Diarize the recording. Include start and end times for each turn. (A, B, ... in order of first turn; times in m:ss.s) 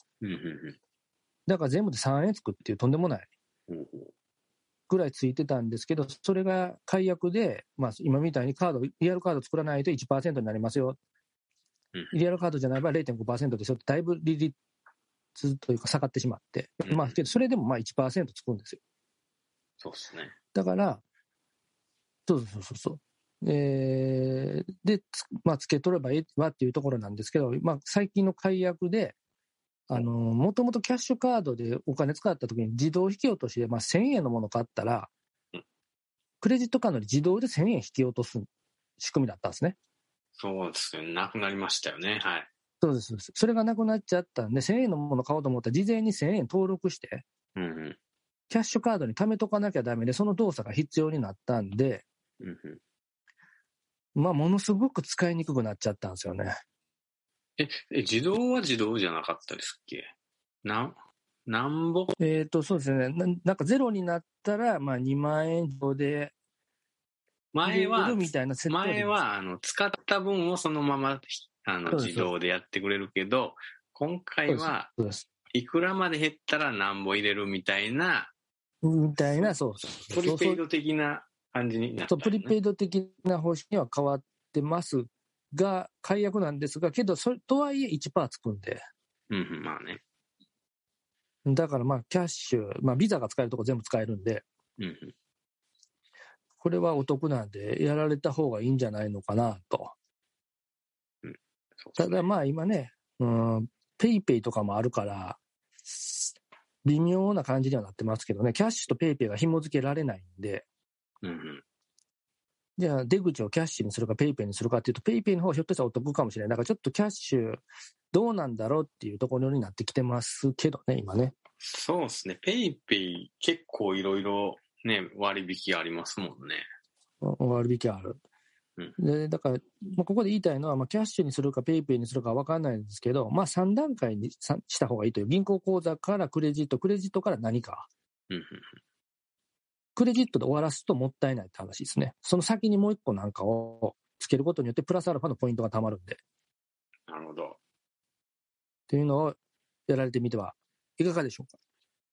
0:00.2-0:00.8 A
0:01.5-0:03.3 B
0:03.7-0:04.1 A
0:04.9-0:11.0 B
0:12.1-0:14.6 B
0:15.4-0:18.8 B
0:16.8-0:17.2 A
0:19.8-0:20.3 A
0:20.5-0:21.0 B
0:22.3-0:29.1 B
0:29.9-0:35.1 B
0:36.4-0:38.5 B
0:39.0-0:39.8 B
0:40.4-0:42.5 A
0:42.8-0:47.2 B
0:47.6-0:48.0 A
0:48.5-0:52.0 B
0:52.4-0:52.8 A
0:54.2-0:56.5 B
0:57.6-1:00.1 A
1:00.6-1:02.2 A
1:02.2-1:06.3 B
1:07.5-1:14.9 A
1:07.6-1:09.1 B
1:11.9-1:12.3 B
1:14.5-1:15.3 B
1:15.5-1:18.3 A
1:18.8-1:20.6 B
1:19.2-1:19.6 A
1:20.1-1:22.5 A
1:22.1-1:28.8 B
1:29.3-1:30.0 A
1:31.4-1:34.4 B
1:34.8-1:35.1 A
1:36.6-1:39.9 B
1:41.2-1:42.3 A
1:42.0-1:50.6 B
1:51.2-1:51.6 A
1:52.8-2:01.4 B
2:01.6-2:06.6 A
2:07.2-2:08.2 B
2:09.0-2:17.9 B
2:18.3-2:18.8 A
2:20.0-2:26.2 B
2:27.1-2:27.6 A
2:28.9-2:29.4 B
2:29.9-2:31.6 B